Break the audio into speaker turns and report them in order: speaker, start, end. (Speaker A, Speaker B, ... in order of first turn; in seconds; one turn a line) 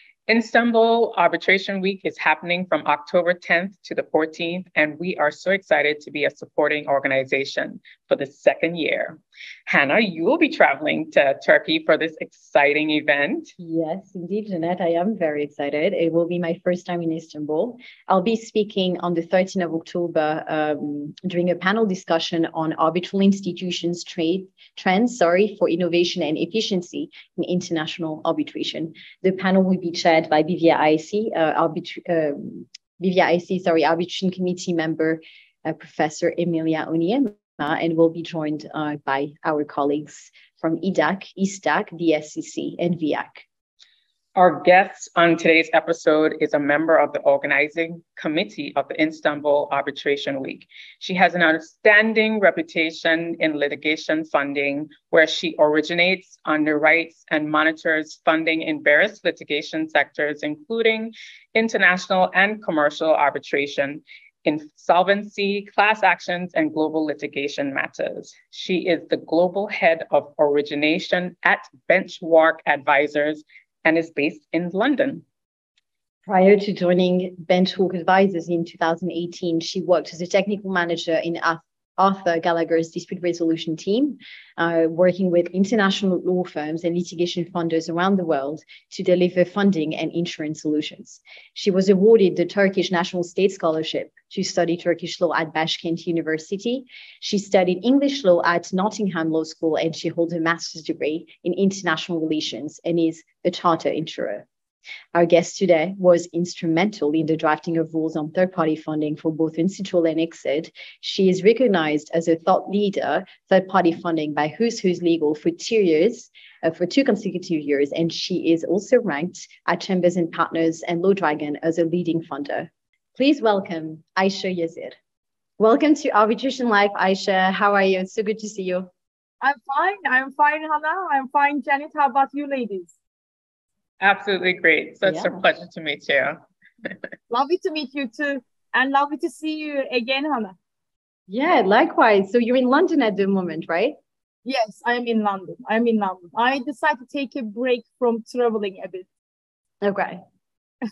Speaker A: 0.3-13.5
Speaker B: 13.6-43.4
Speaker A: 44.3-75.2
Speaker B: 76.2-104.4
Speaker B: 105.1-125.0
Speaker B: 125.6-128.9
Speaker C: 129.4-132.9
Speaker A: 134.0-137.0
Speaker B: 135.0-135.4
Speaker C: 137.3-140.6
Speaker B: 141.3-143.9
Speaker C: 144.4-149.1
Speaker B: 149.8-150.2